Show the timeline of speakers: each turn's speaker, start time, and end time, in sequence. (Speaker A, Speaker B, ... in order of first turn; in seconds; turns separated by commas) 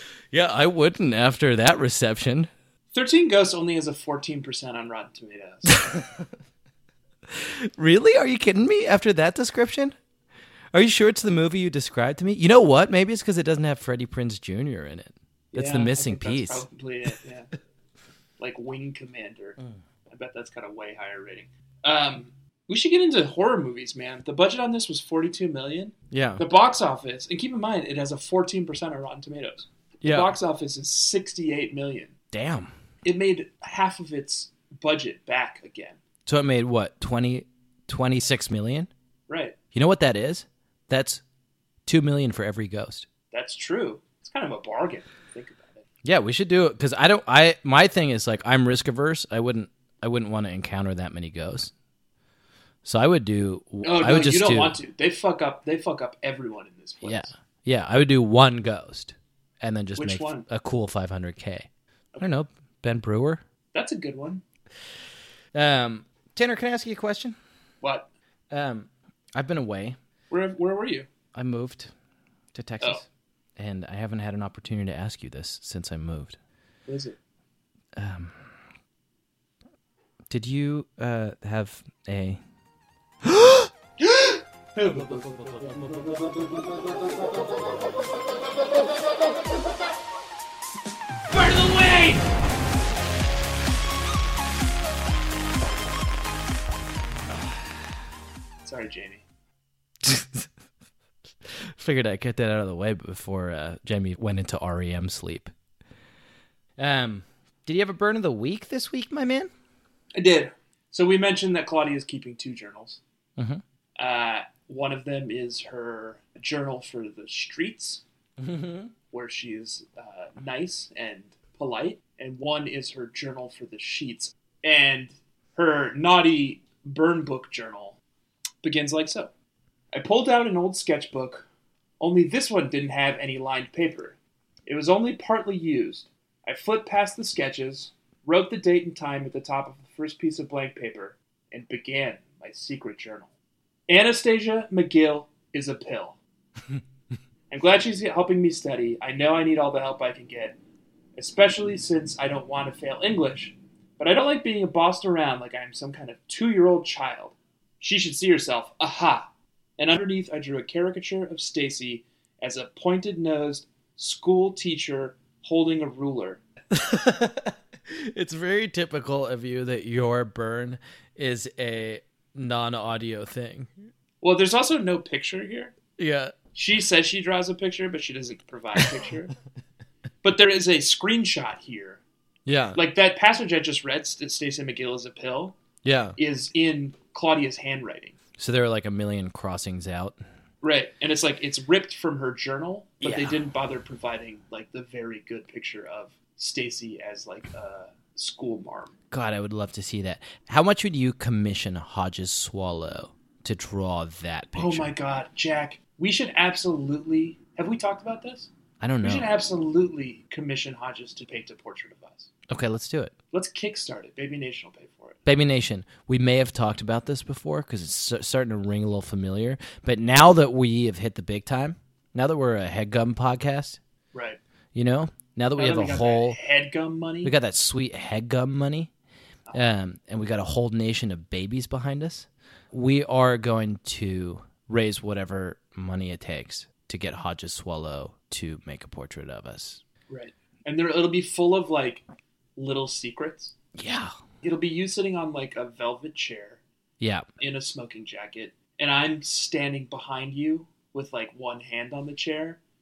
Speaker A: 0.3-2.5, Speaker B: 2.9-6.0, Speaker A: 7.3-10.0, Speaker A: 10.7-16.7, Speaker B: 15.5-17.5, Speaker B: 18.4-32.1, Speaker A: 26.1-26.4, Speaker A: 30.0-30.4, Speaker A: 32.3-32.7, Speaker B: 33.0-36.0, Speaker A: 36.3-38.9, Speaker B: 39.3-39.6, Speaker A: 39.7-41.2, Speaker A: 41.9-43.1, Speaker B: 43.3-45.8, Speaker A: 46.0-51.7, Speaker A: 52.9-54.8, Speaker B: 53.8-57.3, Speaker A: 57.0-61.7, Speaker B: 60.0-60.5, Speaker A: 62.2-63.4, Speaker B: 63.7-64.4, Speaker A: 65.5-67.4, Speaker B: 67.8-68.1, Speaker A: 68.5-70.0, Speaker B: 70.3-71.1, Speaker A: 71.3-71.9, Speaker A: 72.5-73.0, Speaker A: 73.6-76.4, Speaker B: 76.9-77.2, Speaker A: 78.0-78.5, Speaker A: 80.3-82.4, Speaker A: 83.2-83.7, Speaker B: 84.0-85.3, Speaker B: 91.3-92.2, Speaker B: 98.6-99.2, Speaker A: 100.0-100.5, Speaker A: 101.5-105.5, Speaker A: 106.8-109.5, Speaker B: 110.2-113.0, Speaker A: 113.4-113.6, Speaker B: 114.0-118.0, Speaker A: 118.4-118.9, Speaker B: 119.1-128.0, Speaker B: 128.6-129.3, Speaker B: 129.9-131.5, Speaker B: 132.0-143.3, Speaker B: 143.9-146.2, Speaker B: 147.5-150.6, Speaker B: 151.2-166.4, Speaker A: 166.7-173.7, Speaker B: 174.2-175.8, Speaker A: 176.0-176.3, Speaker B: 176.5-179.3, Speaker B: 180.2-182.0, Speaker A: 182.5-182.8, Speaker B: 182.8-185.6, Speaker A: 185.8-186.2, Speaker B: 186.2-188.2, Speaker A: 188.4-190.2, Speaker B: 190.6-198.9, Speaker A: 193.0-193.5, Speaker A: 199.1-204.9, Speaker B: 204.6-208.5, Speaker A: 208.8-209.3, Speaker B: 209.0-212.3, Speaker A: 212.5-213.1, Speaker B: 213.3-215.2, Speaker A: 215.3-223.8, Speaker B: 224.1-224.4, Speaker A: 224.7-226.4, Speaker B: 225.6-227.3, Speaker A: 227.2-228.9, Speaker A: 229.5-239.8, Speaker B: 240.1-242.0, Speaker B: 242.6-243.5, Speaker A: 243.8-244.1, Speaker B: 244.4-246.6, Speaker A: 247.0-247.3, Speaker B: 247.4-252.6